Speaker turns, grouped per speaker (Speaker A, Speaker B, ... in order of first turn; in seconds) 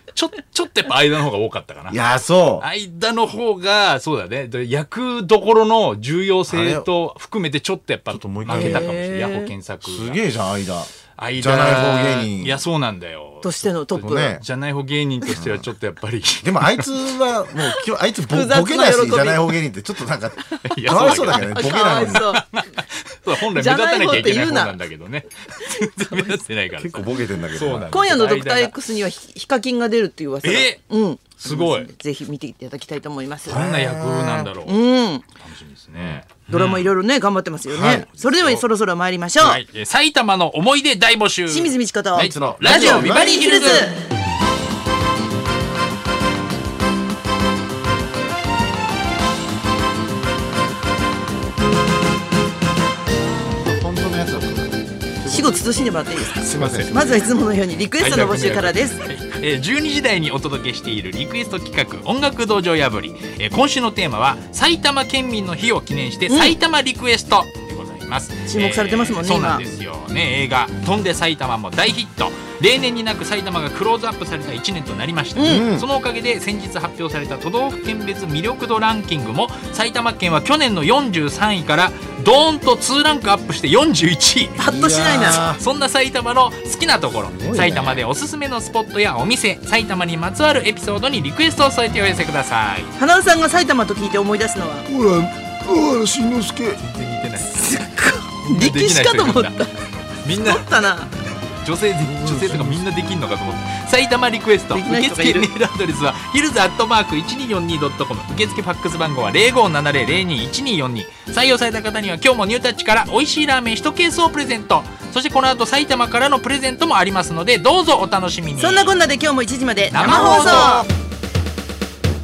Speaker A: 0.1-2.0, 2.6-10.2, 11.2-17.3, 20.6-28.8, 30.4-30.8, 31.4-31.9, 33.5-36.9, 37.9-38.6, 39.4-44.0, 56.1-57.0, 58.0-84.6, 85.2-92.9, 96.8-97.7, 98.4-99.6, 100.2-100.9, 101.6-118.9, 119.9-120.9
Speaker B: 1.9-2.7, 6.5-6.9, 8.1-8.9, 9.8-12.6, 14.0-14.5, 15.3-15.7, 16.4-22.3, 26.8-27.9, 33.5-34.5, 36.0-36.2, 37.7-38.1, 42.1-43.5, 53.4-55.8, 56.4-57.2, 75.4-75.9, 84.6-85.6, 87.3-88.0, 94.9-96.8, 102.0-102.8
Speaker C: 8.5-9.5, 13.4-14.4, 18.3-19.6, 20.9-22.4, 23.3-24.8, 25.7-26.4, 27.9-33.7, 34.6-35.3, 36.5-39.6, 41.5-44.0, 55.3-59.1, 66.3-66.6, 68.5-69.7, 75.3-75.7, 84.6-85.4, 93.0-94.9, 97.4-101.1, 104.7-105.5, 118.6-120.9